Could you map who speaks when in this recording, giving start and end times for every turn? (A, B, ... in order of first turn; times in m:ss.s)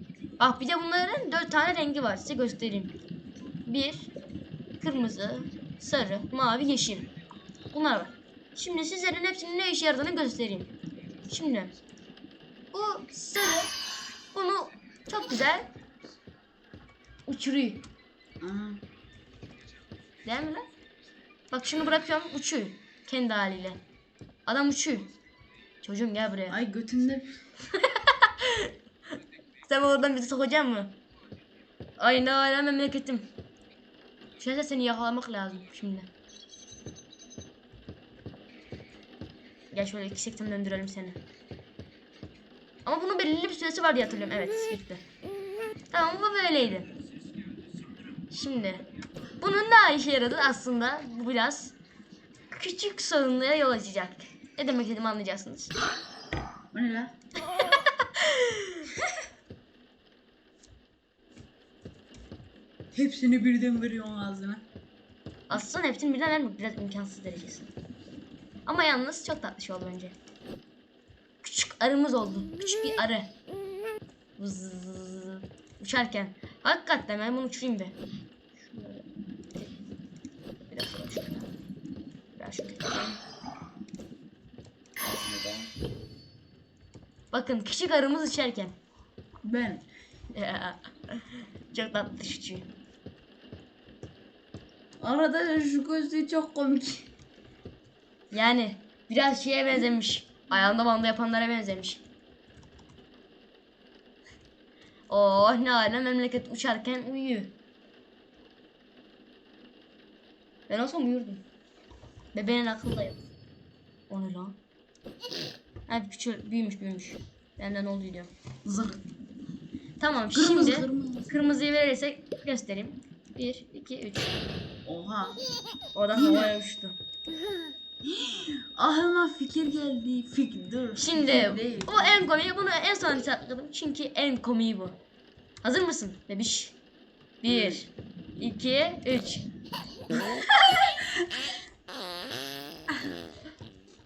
0:00.4-0:02.9 A
0:03.6-0:04.1 A
0:04.8-0:07.1 A
0:07.7-0:10.7 A
0:11.3-0:11.7 A
0:12.7-0:13.7 A
0:14.3-0:15.7 A
0:17.2-0:17.8 A
0:18.4-0:18.8 B
0:20.2-0:20.6 A
0:21.5-0:23.8 A
0:24.4-0:25.1 A
0:25.8-0:26.6 A
0:26.5-0:27.3 B
0:27.7-0:28.7 A
0:29.6-0:30.9 A
0:32.0-0:33.3 A
0:34.4-0:36.1 A
0:39.7-0:41.2 A
0:42.8-0:45.0 A
0:45.9-0:46.9 A
0:48.3-0:48.9 A
0:49.4-0:51.7 A
0:52.5-0:55.7 A
0:56.7-0:57.1 B
0:57.4-0:58.9 A
1:02.9-1:04.6 B
1:05.5-1:07.7 A
1:08.6-1:10.2 A
1:11.4-1:13.3 A
1:14.4-1:18.0 A
1:18.6-1:19.7 A
1:20.6-1:21.5 A
1:22.4-1:23.2 A
1:25.0-1:25.7 B
1:27.3-1:28.8 A
1:29.4-1:29.8 B
1:30.3-1:32.7 A
1:35.0-1:37.1 B
1:38.3-1:42.0 A
1:45.1-1:47.5 A
1:50.7-1:51.4 A
1:52.3-1:53.2 A
1:54.1-1:54.6 A
1:55.9-1:58.3 A
1:58.6-1:59.0 B
2:00.0-2:04.3 A
2:00.3-2:01.3 B
2:04.8-2:05.4 B
2:05.9-2:07.0 A
2:06.1-2:06.5 B
2:08.0-2:12.1 B
2:10.9-2:15.0 A
2:15.6-2:16.8 A
2:17.4-2:19.5 A
2:20.1-2:21.2 B